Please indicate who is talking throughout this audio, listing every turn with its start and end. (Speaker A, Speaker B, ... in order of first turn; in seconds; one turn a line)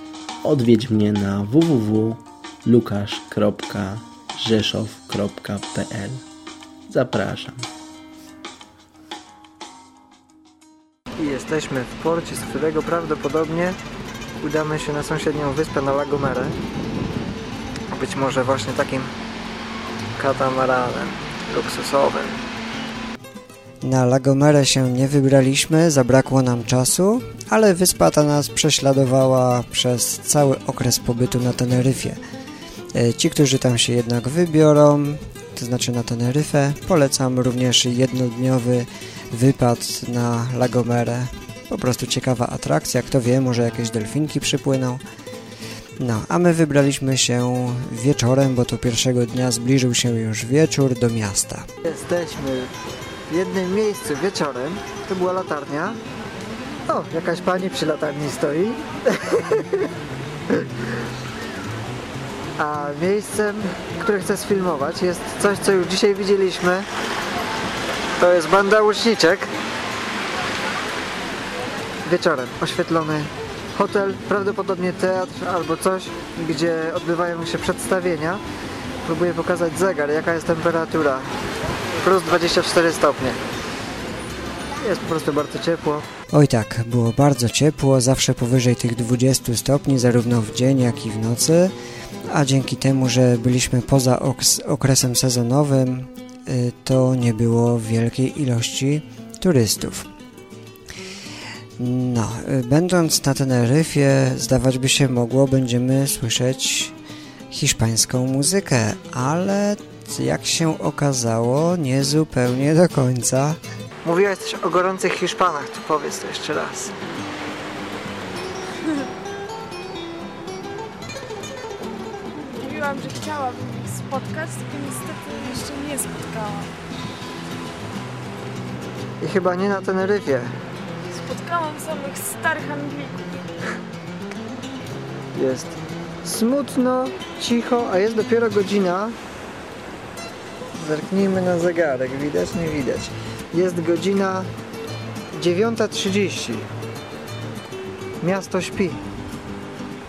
Speaker A: 0.4-6.2
Speaker A: 6.9-7.7
Speaker B: 11.2-13.8
Speaker B: 14.4-16.6
Speaker B: 17.9-19.1
Speaker B: 20.2-22.4
Speaker C: 23.8-32.2
Speaker C: 32.9-45.0
Speaker C: 46.0-51.7
Speaker B: 51.8-52.7
Speaker B: 53.3-56.0
Speaker B: 56.9-59.9
Speaker B: 62.6-66.9
Speaker B: 68.2-69.5
Speaker B: 72.0-78.4
Speaker B: 79.0-81.3
Speaker B: 82.0-83.4
Speaker B: 84.8-86.0
Speaker C: 86.3-91.7
Speaker C: 92.3-100.1
Speaker C: 101.8-106.9
Speaker C: 107.5-113.6
Speaker B: 114.0-116.9
Speaker D: 122.4-126.7
Speaker B: 129.2-130.5
Speaker D: 131.1-133.2
Speaker B: 135.3-139.2
Speaker B: 140.7-144.5
Speaker B: 145.3-146.7
Speaker B: 148.2-149.0